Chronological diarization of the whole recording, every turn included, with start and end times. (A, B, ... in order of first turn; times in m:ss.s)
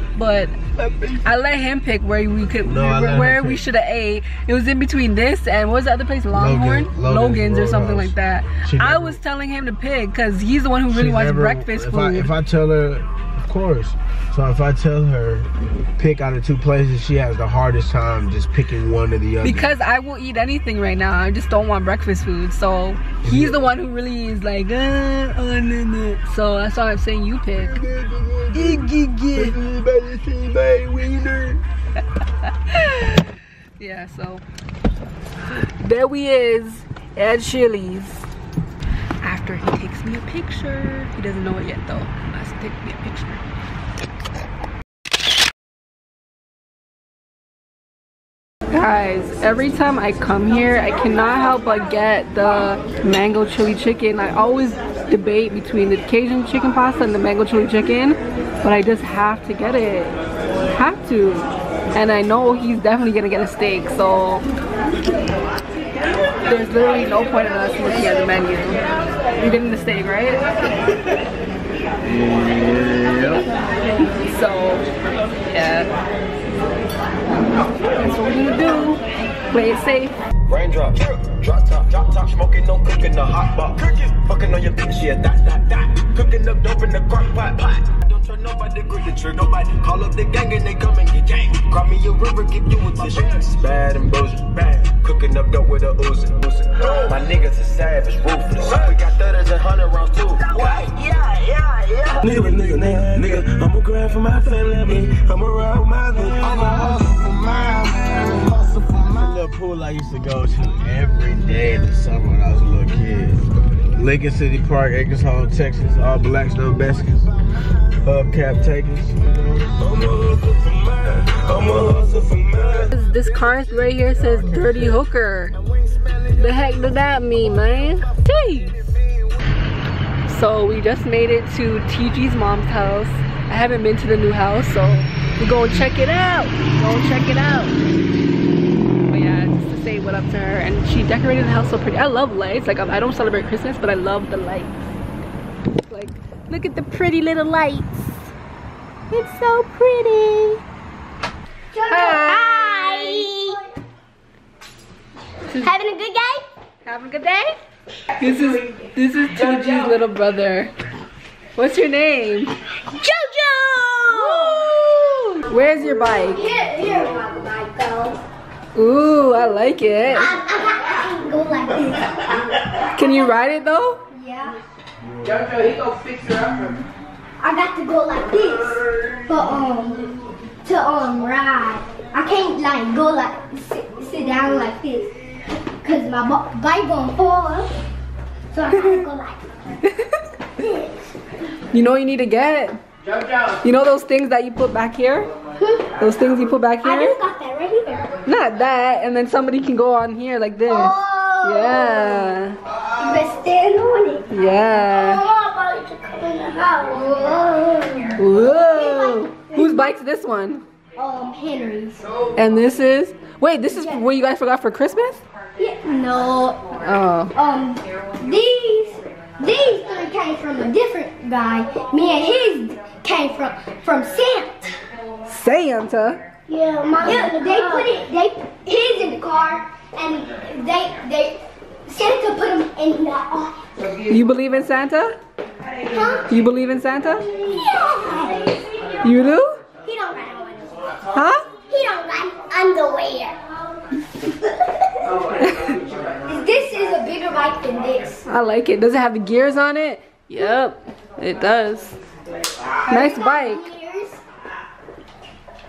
0:00.2-0:00.6 A
0:00.8-0:01.2 B
0:01.2-0:12.3 A
0:02.6-0:03.6 B
0:06.3-0:09.2 B
0:10.9-0:19.8 B
0:19.4-0:27.8 A
0:23.2-0:23.7 B
0:27.6-0:31.6 B
0:28.5-0:29.6 A
0:32.4-0:33.3 A
0:33.8-0:34.4 A
0:35.6-0:38.3 A
0:39.2-0:43.4 A
0:48.7-1:00.1 A
1:00.7-1:04.4 A
1:06.5-1:08.8 A
1:09.4-1:10.4 A
1:12.0-1:13.4 B
1:14.2-1:14.9 A
1:15.5-1:15.9 A
1:17.8-1:20.2 A
1:20.5-1:41.0 C
1:40.5-1:49.1 D
1:41.6-1:42.4 C
1:46.5-1:47.3 B
1:49.0-1:57.3 B
1:58.0-1:59.7 B
1:59.8-2:02.9 D
2:02.9-2:05.6 A
2:04.2-2:05.0 B
2:06.3-2:08.9 A
2:10.3-2:17.9 A
2:19.1-2:24.9 A
2:25.9-2:28.3 A
2:29.1-2:30.6 A
2:31.7-2:33.6 E
2:31.8-2:33.4 A
2:35.5-2:35.8 A
2:35.6-2:36.4 E
2:36.8-2:37.6 A
2:38.2-2:40.7 A
2:41.6-2:42.6 A
2:42.9-2:44.8 E
2:44.1-2:46.4 A
2:45.5-2:48.2 E
2:48.8-2:50.4 A
2:50.1-2:53.3 E
2:53.0-2:54.0 A
2:54.1-2:54.6 E
2:55.0-2:56.8 B
2:57.4-3:00.1 E
3:00.6-3:07.7 E
3:08.5-3:09.5 E
3:10.6-3:11.0 E
3:11.7-3:12.8 A
3:13.6-3:15.3 A
3:15.6-3:15.9 E
3:16.0-3:17.2 A
3:16.8-3:18.2 E
3:18.3-3:22.6 A
3:20.7-3:22.2 E
3:23.0-3:29.9 E
3:24.3-3:25.2 A
3:28.2-3:30.6 A
3:31.0-3:32.2 E
3:32.4-3:35.2 A
3:33.8-3:34.1 E
3:35.6-3:36.8 E
3:36.8-3:37.4 A
3:37.4-3:44.8 E
3:45.3-3:46.2 A
3:46.5-3:53.6 E
3:47.0-3:47.3 A
3:54.0-3:55.2 A
3:55.9-3:56.3 E
3:56.2-3:57.3 A
3:57.2-3:59.2 E
3:59.0-3:59.6 A
3:59.8-4:01.1 E
4:01.1-4:01.5 A
4:01.6-4:03.4 E
4:04.2-4:05.3 E
4:05.4-4:05.8 A
4:06.2-4:08.2 E
4:08.3-4:12.0 A
4:12.8-4:14.2 E
4:12.9-4:13.7 A